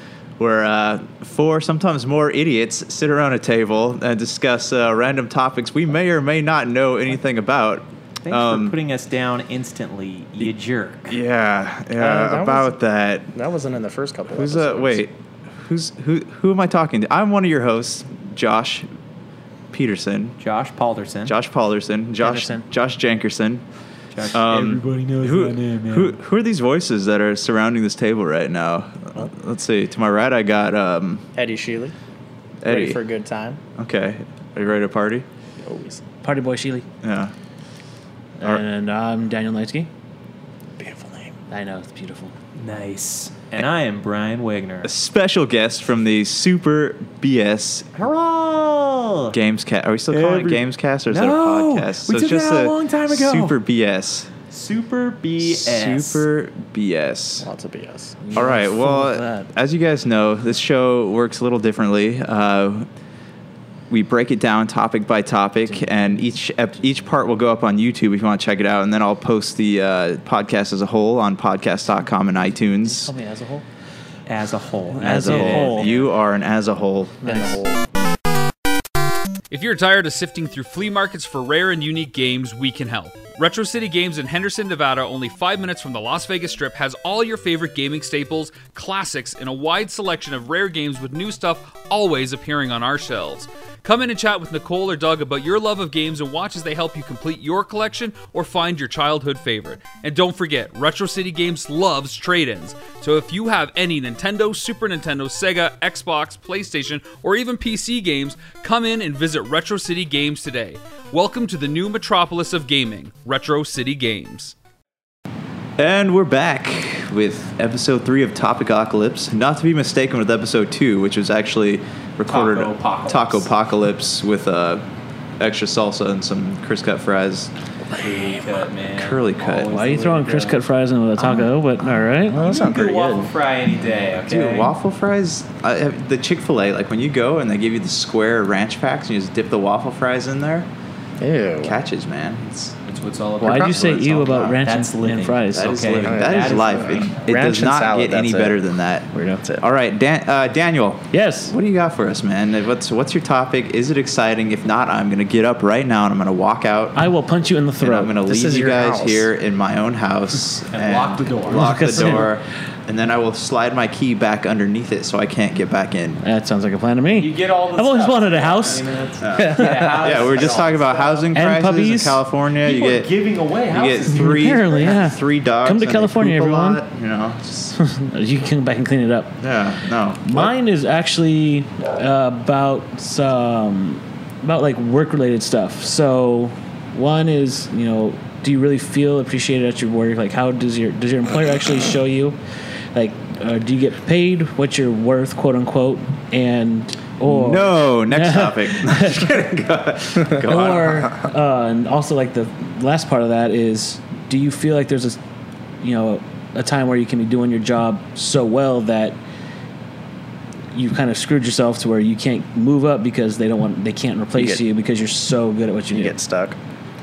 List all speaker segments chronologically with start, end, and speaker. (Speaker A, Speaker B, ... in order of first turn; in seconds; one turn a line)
Speaker A: 0.4-8.8
Speaker B: 8.2-11.2
Speaker A: 11.1-13.3
Speaker C: 12.0-12.8
Speaker C: 13.3-15.0
Speaker A: 14.3-18.9
Speaker A: 19.7-20.4
Speaker B: 20.4-21.4
Speaker A: 21.2-23.6
Speaker D: 22.2-22.7
Speaker B: 24.1-26.2
Speaker A: 24.3-31.2
Speaker C: 31.4-31.9
Speaker A: 32.6-33.0
Speaker C: 32.7-33.6
Speaker A: 33.8-35.3
Speaker C: 35.6-36.0
Speaker D: 36.2-36.9
Speaker A: 37.0-37.3
Speaker D: 38.4-39.9
Speaker C: 40.8-41.3
Speaker D: 41.5-42.3
Speaker B: 42.6-44.9
Speaker A: 44.8-47.9
Speaker B: 48.0-49.4
Speaker A: 49.3-54.3
Speaker B: 50.1-53.6
Speaker B: 54.5-56.3
Speaker A: 55.4-57.5
Speaker C: 57.4-58.3
Speaker D: 58.2-59.5
Speaker A: 58.4-62.9
Speaker A: 63.9-73.1
Speaker D: 65.6-66.4
Speaker D: 72.8-73.7
Speaker B: 74.3-76.1
Speaker D: 74.9-76.0
Speaker A: 75.1-77.5
Speaker D: 77.2-77.6
Speaker C: 77.3-77.8
Speaker E: 79.5-114.5
Speaker A: 115.8-124.8
Speaker B: 122.3-123.5
Speaker A: 125.4-127.5
Speaker B: 127.9-130.6
Speaker A: 128.9-129.7
Speaker D: 129.7-132.4
Speaker C: 131.2-133.3
Speaker B: 132.3-134.8
Speaker A: 134.3-140.7
Speaker C: 141.2-141.8
Speaker A: 141.6-142.5
Speaker B: 142.5-147.1
Speaker D: 143.4-145.7
Speaker A: 145.5-149.1
Speaker C: 146.0-148.6
Speaker C: 149.1-149.6
Speaker A: 149.6-157.0
Speaker D: 151.1-151.5
Speaker D: 156.9-158.1
Speaker A: 157.8-166.2
Speaker C: 158.2-159.3
Speaker B: 160.7-162.2
Speaker D: 161.5-162.3
Speaker D: 166.2-168.8
Speaker B: 167.1-171.4
Speaker A: 169.2-173.1
Speaker D: 169.4-170.4
Speaker D: 171.3-172.2
Speaker B: 172.6-175.0
Speaker A: 173.7-177.6
Speaker D: 174.1-176.8
Speaker D: 177.7-179.3
Speaker A: 179.4-180.5
Speaker D: 180.2-192.4
Speaker D: 192.9-199.3
Speaker A: 197.3-201.1
Speaker D: 200.4-205.2
Speaker D: 205.8-209.2
Speaker D: 210.7-216.2
Speaker C: 214.3-214.6
Speaker C: 215.9-216.6